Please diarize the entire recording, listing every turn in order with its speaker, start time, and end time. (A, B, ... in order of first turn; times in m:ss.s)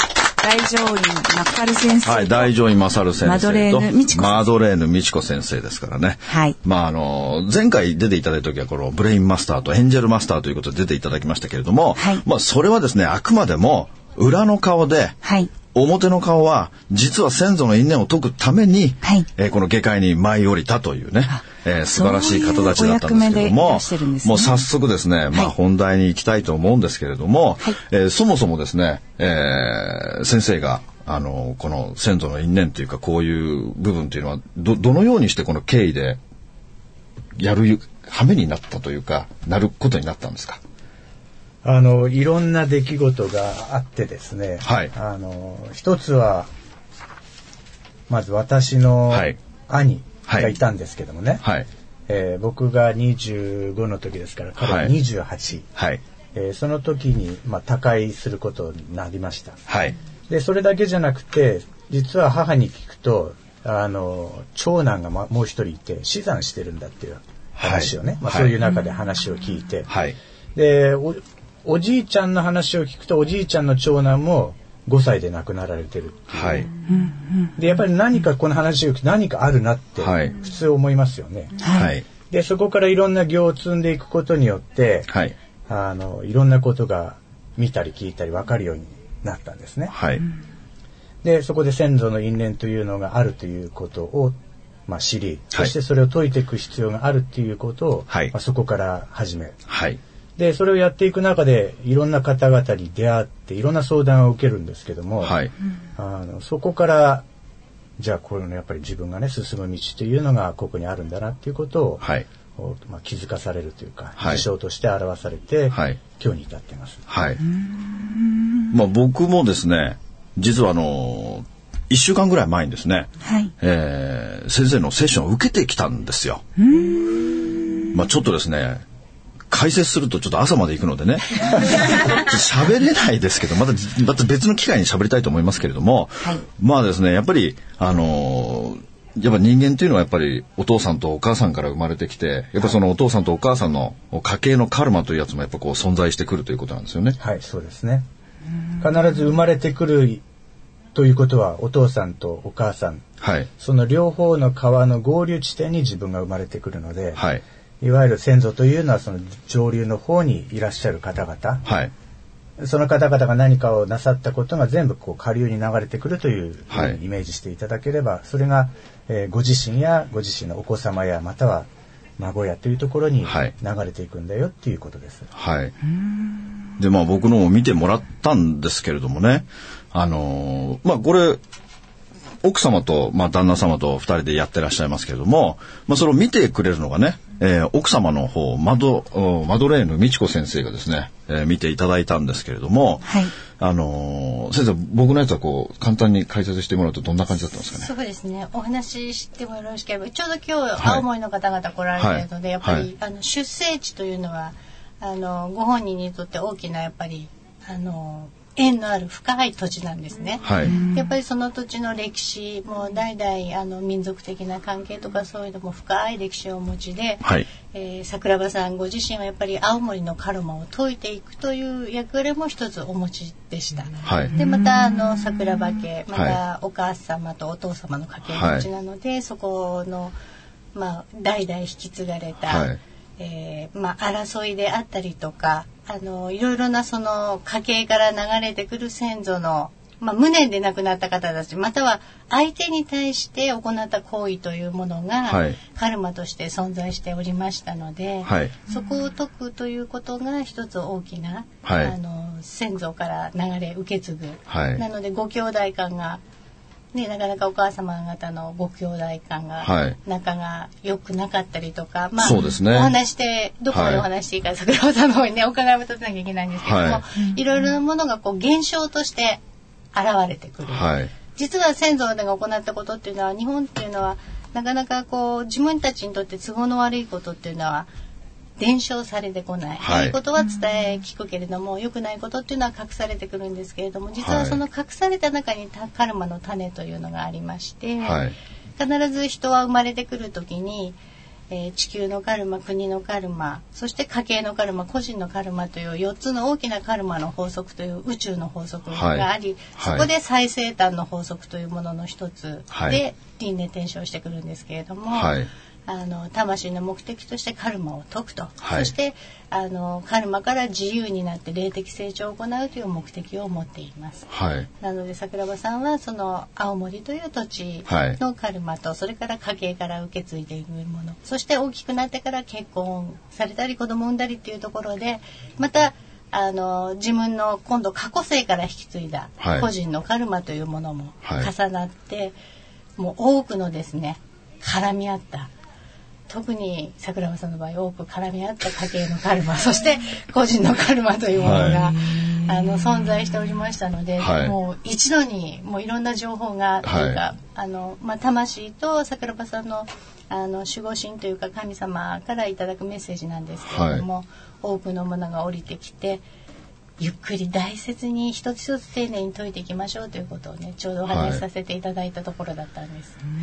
0:00.4-0:02.5 A
0:02.0-0:36.2 B
0:03.2-0:04.5 A
0:06.3-0:06.6 A
0:12.0-0:12.2 A
0:15.2-0:15.5 A
0:21.9-0:24.7 A
0:37.4-0:40.6 B
0:41.6-0:46.5 C
0:44.6-0:44.9 B
0:48.1-0:51.4 C
0:49.1-0:49.4 B
0:50.3-0:50.6 B
0:52.1-0:55.7 C
0:54.6-0:54.9 B
0:55.8-0:56.0 B
0:56.3-0:59.6 C
0:59.7-1:00.0 B
1:00.3-1:09.9 C
1:07.6-1:08.6 B
1:09.9-1:10.2 B
1:10.6-1:16.7 C
1:16.3-1:16.7 B
1:16.9-1:17.5 A
1:17.6-1:21.7 C
1:20.0-1:20.4 B
1:21.6-1:21.9 A
1:21.7-1:22.0 B
1:22.3-1:25.1 C
1:25.7-1:30.0 C
1:29.9-1:30.2 B
1:31.2-1:39.6 C
1:39.7-1:40.0 B
1:40.4-1:45.4 C
1:45.2-1:45.5 B
1:46.0-1:47.3 C
1:48.0-1:57.1 C
1:54.2-1:54.4 B
1:55.7-1:56.0 B
1:57.1-1:57.4 B
1:58.7-2:06.4 B
2:03.2-2:03.5 A
2:06.6-2:07.9 A
2:07.9-2:08.8 B
2:09.5-2:27.2 B
2:27.2-2:28.1 C
2:28.8-2:30.2 C
2:31.0-2:33.1 C
2:33.2-2:33.5 B
2:33.6-2:37.3 C
2:37.2-2:37.4 B
2:37.8-2:41.7 C
2:41.7-2:41.9 B
2:42.6-2:55.3 C
2:46.7-2:47.0 B
2:53.3-2:53.5 B
2:55.4-2:55.7 B
2:56.8-3:01.4 B
3:02.4-3:17.9 B
3:13.1-3:13.3 A
3:17.7-3:50.1 D
3:20.8-3:21.0 B
3:22.0-3:22.9 B
3:30.4-3:30.7 B
3:30.6-3:31.0 A
3:44.0-3:44.3 B
3:48.3-3:48.7 B
3:50.8-4:16.2 D
3:52.5-3:52.8 B
4:05.3-4:05.6 B
4:08.2-4:08.6 B
4:11.6-4:12.0 B
4:14.5-4:14.8 B
4:16.9-4:29.4 D
4:19.6-4:20.0 B
4:22.2-4:23.0 B
4:23.7-4:24.1 B
4:26.6-4:27.0 B
4:29.9-4:37.9 D
4:30.7-4:31.1 B
4:38.6-4:48.2 D
4:39.8-4:40.2 B
4:44.2-4:44.6 B
4:48.0-4:48.4 B
4:48.8-4:51.0 D
4:51.5-5:32.4 D
4:58.9-5:00.1 B
5:02.7-5:03.0 B
5:05.1-5:05.5 B
5:08.6-5:08.9 B
5:14.3-5:14.7 B
5:17.9-5:18.2 B
5:29.4-5:29.7 B
5:31.2-5:31.5 B
5:33.0-5:35.5 D
5:36.3-5:56.2 D
5:41.4-5:41.8 B
5:44.2-5:44.5 B
5:46.8-5:47.2 B
5:53.7-5:54.0 B
5:57.0-6:03.2 D
6:01.1-6:01.4 B